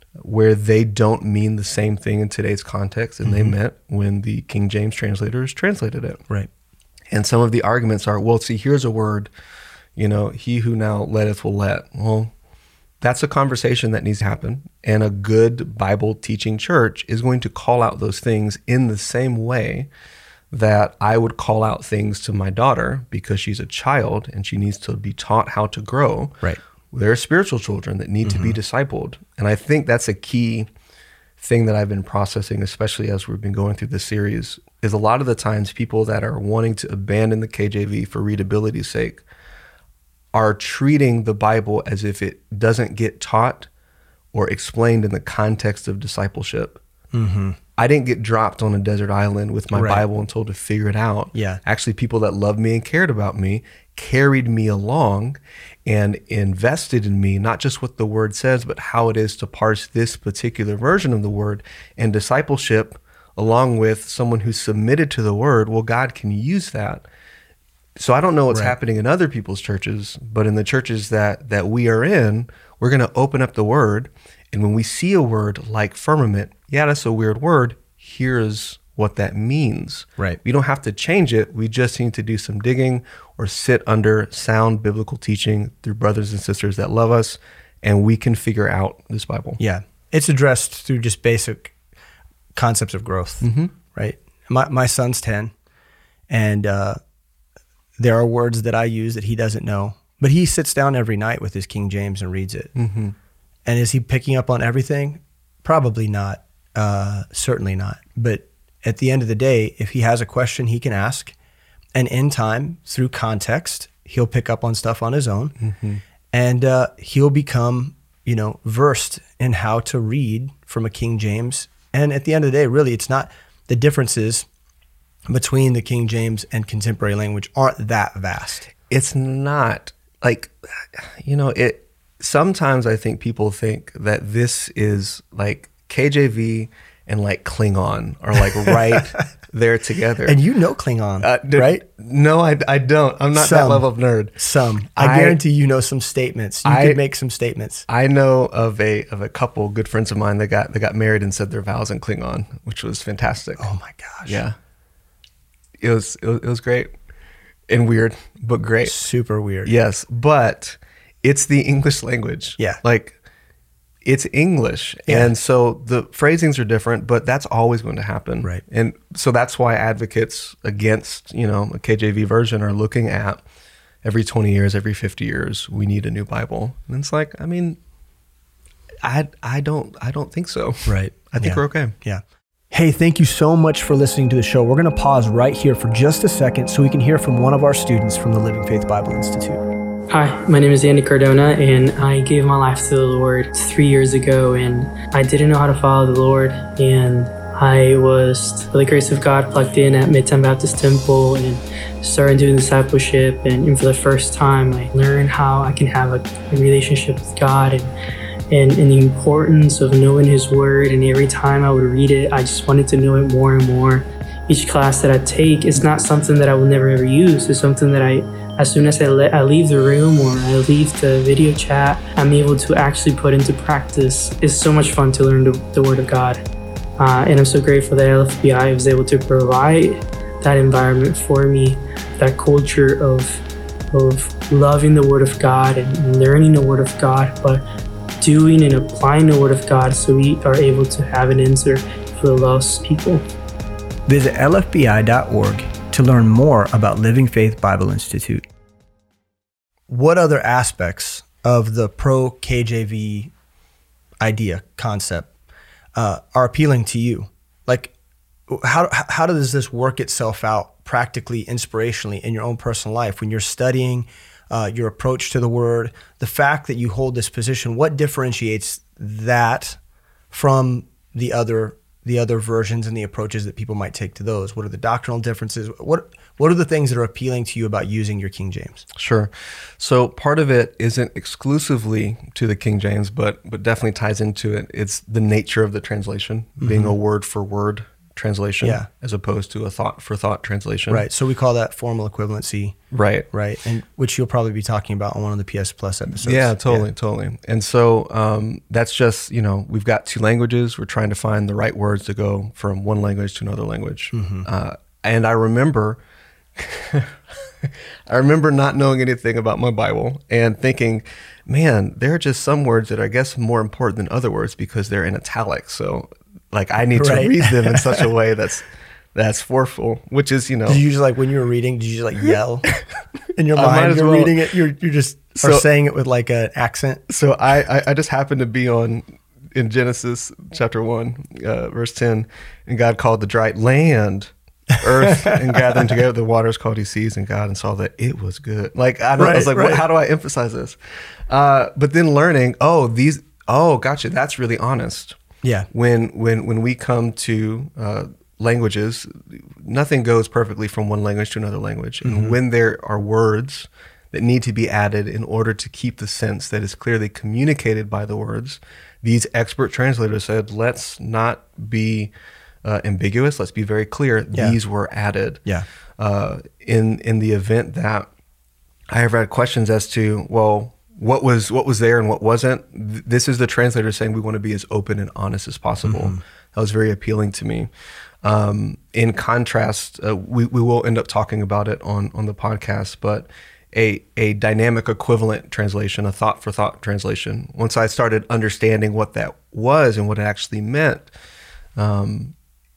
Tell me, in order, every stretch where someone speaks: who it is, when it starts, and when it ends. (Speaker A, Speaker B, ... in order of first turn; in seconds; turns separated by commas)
Speaker A: 0.2-6.2, Speaker B: 3.2-3.5, Speaker A: 7.1-9.3, Speaker A: 9.9-12.3, Speaker A: 13.0-19.9, Speaker A: 20.5-26.4, Speaker A: 26.9-30.7, Speaker B: 28.2-28.6, Speaker A: 31.4-39.2, Speaker A: 40.3-43.7, Speaker A: 44.3-46.8, Speaker B: 47.1-47.6, Speaker A: 47.8-67.0, Speaker B: 49.7-50.0, Speaker B: 51.3-51.6, Speaker A: 68.0-89.6, Speaker B: 89.6-91.7, Speaker B: 92.5-95.5, Speaker A: 93.4-93.7, Speaker B: 96.3-97.0, Speaker B: 98.0-102.7, Speaker A: 102.8-103.1, Speaker B: 103.7-111.3, Speaker B: 111.9-115.5, Speaker A: 115.6-116.0, Speaker B: 116.3-124.5, Speaker B: 125.3-128.7, Speaker A: 128.8-140.4, Speaker B: 140.2-141.8, Speaker A: 141.2-144.4, Speaker B: 143.3-143.8, Speaker B: 144.4-147.8, Speaker A: 144.9-145.4, Speaker A: 146.6-147.0, Speaker A: 147.9-153.7, Speaker B: 153.6-154.4, Speaker A: 154.2-154.6, Speaker A: 155.8-156.9, Speaker A: 157.7-159.0, Speaker B: 158.8-159.7, Speaker A: 159.6-163.2, Speaker A: 164.0-173.4, Speaker A: 174.0-177.8, Speaker A: 179.0-181.9, Speaker B: 180.8-189.6, Speaker C: 190.1-207.9, Speaker C: 208.5-226.4, Speaker C: 227.0-237.6, Speaker C: 238.2-243.2, Speaker B: 244.1-248.4, Speaker B: 249.9-253.3, Speaker B: 254.2-255.3, Speaker B: 255.9-257.9, Speaker B: 258.5-269.8, Speaker B: 270.3-278.8, Speaker A: 278.9-291.1, Speaker B: 286.6-286.9, Speaker B: 288.6-288.9, Speaker B: 290.9-292.8, Speaker A: 292.9-293.3, Speaker B: 293.3-296.9, Speaker A: 296.1-306.0, Speaker B: 304.1-304.5, Speaker A: 306.6-320.8, Speaker B: 316.9-318.0, Speaker B: 320.7-322.7, Speaker B: 323.4-327.0, Speaker A: 323.5-324.4, Speaker A: 325.4-325.6, Speaker A: 327.1-345.2, Speaker B: 339.2-339.8, Speaker B: 345.4-345.7, Speaker A: 345.7-362.1, Speaker B: 352.0-352.4, Speaker A: 362.6-365.4, Speaker A: 366.0-368.1, Speaker A: 368.9-377.7, Speaker B: 375.9-376.2, Speaker A: 378.2-391.1, Speaker A: 391.8-392.3